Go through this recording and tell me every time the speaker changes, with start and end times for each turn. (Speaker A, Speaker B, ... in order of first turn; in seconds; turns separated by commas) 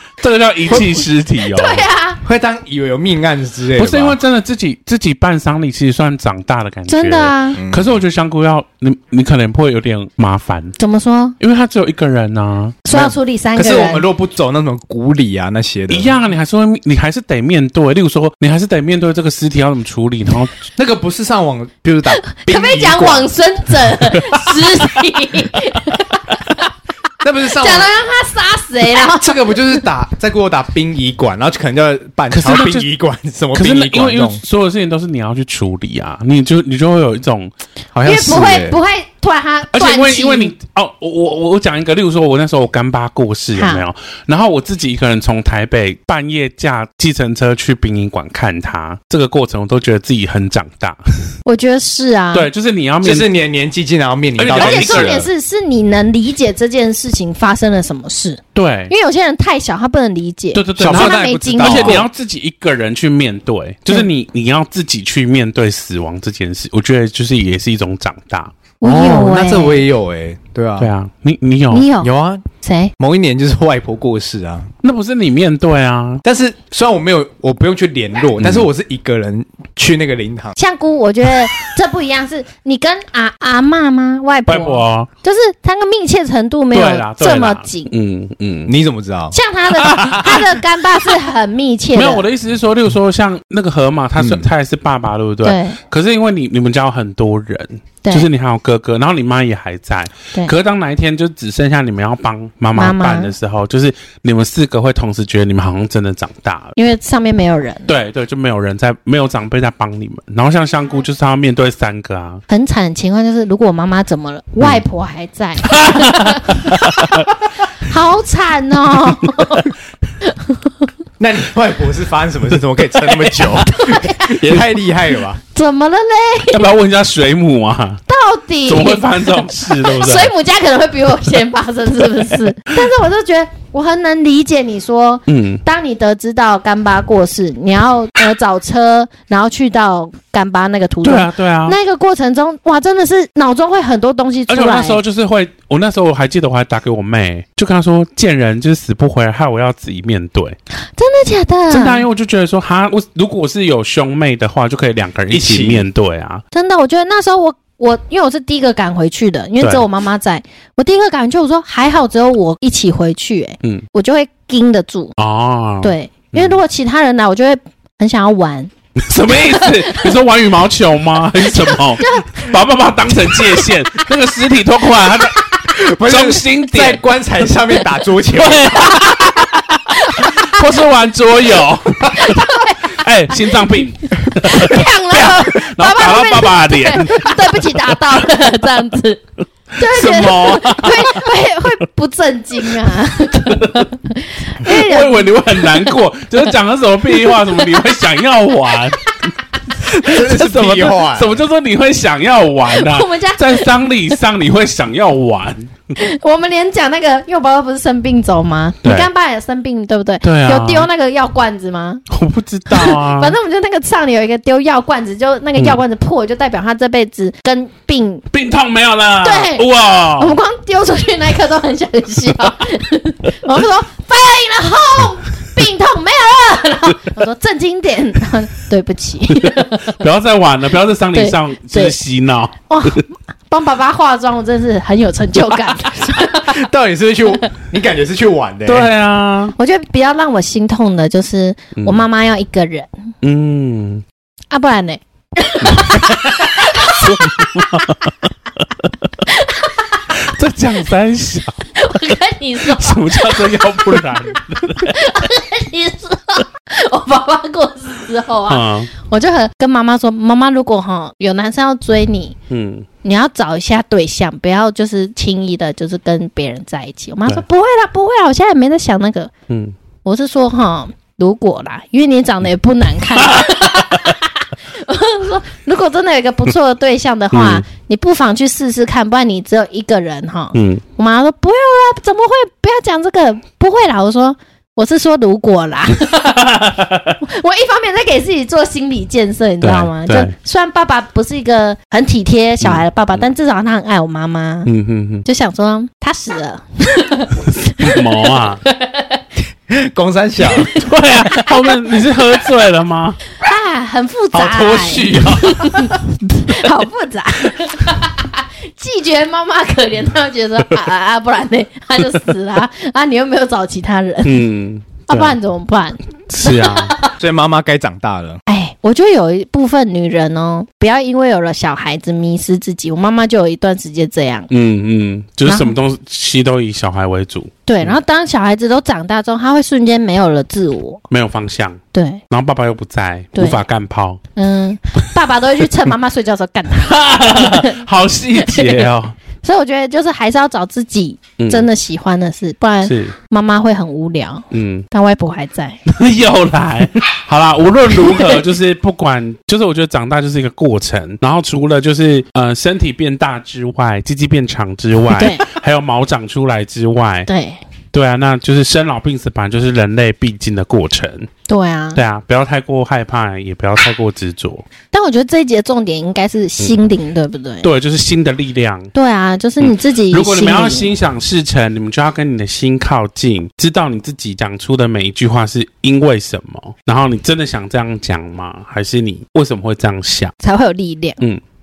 Speaker A: 0.2-1.8, Speaker B: 1.5-2.2, Speaker C: 2.2-4.2, Speaker A: 3.8-10.8, Speaker B: 6.9-7.6, Speaker C: 7.5-8.0, Speaker B: 10.8-11.4, Speaker A: 11.4-12.8, Speaker B: 12.8-14.0, Speaker C: 12.9-16.1, Speaker A: 15.9-20.6, Speaker C: 20.7-23.3, Speaker B: 22.1-26.6, Speaker C: 24.1-24.4, Speaker C: 27.2-27.9, Speaker B: 27.4-29.8, Speaker C: 29.0-34.4, Speaker A: 32.3-32.9, Speaker A: 33.5-37.5, Speaker C: 37.9-38.8, Speaker B: 38.0-40.5, Speaker A: 39.7-51.0, Speaker B: 43.5-43.8, Speaker B: 51.5-52.5, Speaker A: 52.3-53.3, Speaker C: 53.0-55.2, Speaker A: 54.3-55.3, Speaker B: 54.5-62.0, Speaker A: 58.5-58.9, Speaker A: 60.5-69.2, Speaker C: 60.8-62.0, Speaker B: 68.8-69.8, Speaker C: 68.8-70.9, Speaker A: 70.8-71.9, Speaker B: 71.7-72.9, Speaker C: 72.0-72.4, Speaker C: 73.0-74.7, Speaker A: 74.8-76.2, Speaker C: 76.2-80.6, Speaker A: 78.4-78.7, Speaker B: 80.6-87.9, Speaker A: 84.5-85.1, Speaker A: 86.7-88.7, Speaker C: 88.7-89.4, Speaker B: 89.3-92.2, Speaker A: 89.7-90.6, Speaker A: 91.9-106.7, Speaker C: 94.2-94.5, Speaker B: 95.4-95.8, Speaker B: 102.7-103.3, Speaker B: 106.8-107.9, Speaker A: 107.9-112.4, Speaker B: 112.5-117.2, Speaker A: 115.6-117.3, Speaker B: 117.8-120.9, Speaker C: 121.2-125.4, Speaker A: 123.0-123.6, Speaker B: 123.7-124.4, Speaker B: 125.5-126.6, Speaker A: 126.5-128.0, Speaker B: 128.1-145.0, Speaker A: 128.7-130.3, Speaker A: 135.3-135.6, Speaker A: 141.0-141.8, Speaker A: 144.5-150.6, Speaker B: 150.9-152.0, Speaker A: 151.7-156.4, Speaker C: 155.3-155.8, Speaker B: 156.5-165.1, Speaker A: 159.6-159.9, Speaker A: 165.2-166.6, Speaker B: 165.8-168.7, Speaker A: 169.0-177.0, Speaker B: 169.4-170.2, Speaker B: 171.4-172.5, Speaker B: 173.3-173.7, Speaker C: 175.7-178.8, Speaker A: 178.3-188.3, Speaker B: 178.8-180.6, Speaker B: 182.1-183.4, Speaker B: 184.1-189.2, Speaker B: 189.8-195.9, Speaker A: 189.8-191.8, Speaker A: 193.3-193.9, Speaker A: 194.6-199.2, Speaker B: 197.1-197.8, Speaker B: 199.0-199.3, Speaker C: 199.9-201.4, Speaker A: 200.0-205.7, Speaker B: 202.7-204.1, Speaker B: 205.9-212.0, Speaker A: 210.2-210.9, Speaker A: 212.1-213.4, Speaker B: 212.7-218.2, Speaker A: 218.3-220.4, Speaker B: 219.2-229.9, Speaker A: 229.4-233.0, Speaker B: 231.1-232.0, Speaker B: 232.7-236.6, Speaker C: 236.3-238.9, Speaker A: 238.7-239.5, Speaker B: 239.6-242.9, Speaker A: 241.8-242.0, Speaker A: 243.2-244.0, Speaker B: 244.5-247.8, Speaker A: 245.6-248.9, Speaker B: 249.2-250.0, Speaker A: 250.1-251.7, Speaker B: 251.7-262.4, Speaker A: 252.6-255.0, Speaker A: 258.5-258.9, Speaker A: 262.5-262.9, Speaker B: 263.0-269.3, Speaker A: 269.5-269.7, Speaker B: 270.0-286.6, Speaker A: 273.3-273.7, Speaker A: 277.3-277.6, Speaker A: 280.5-280.8, Speaker A: 286.0-287.2, Speaker B: 287.2-294.7, Speaker A: 289.6-290.3, Speaker A: 292.6-293.2, Speaker A: 294.6-295.2, Speaker B: 295.2-299.2, Speaker A: 297.6-298.6, Speaker C: 299.7-300.7, Speaker B: 300.5-302.2, Speaker A: 300.6-303.2, Speaker B: 303.4-314.4, Speaker A: 304.3-306.7, Speaker C: 304.9-305.5, Speaker A: 314.2-315.4, Speaker B: 315.1-317.1, Speaker A: 316.3-316.9, Speaker C: 317.2-318.4, Speaker B: 318.5-324.5, Speaker A: 324.5-327.9, Speaker B: 325.4-325.8, Speaker B: 327.7-331.0, Speaker A: 331.1-334.2, Speaker B: 331.9-332.2, Speaker B: 333.3-333.6, Speaker B: 334.4-337.8, Speaker A: 336.8-339.1, Speaker B: 338.4-338.9, Speaker B: 339.4-345.8, Speaker A: 341.4-341.6, Speaker A: 342.8-343.1, Speaker A: 344.5-344.9, Speaker A: 345.9-357.3, Speaker B: 348.0-348.3, Speaker B: 355.1-355.4, Speaker B: 357.3-357.6, Speaker A: 357.9-361.3, Speaker B: 361.5-362.0, Speaker A: 361.9-364.6, Speaker B: 364.9-367.7, Speaker A: 367.6-368.9, Speaker B: 368.9-370.9, Speaker A: 369.6-380.3, Speaker B: 380.4-381.2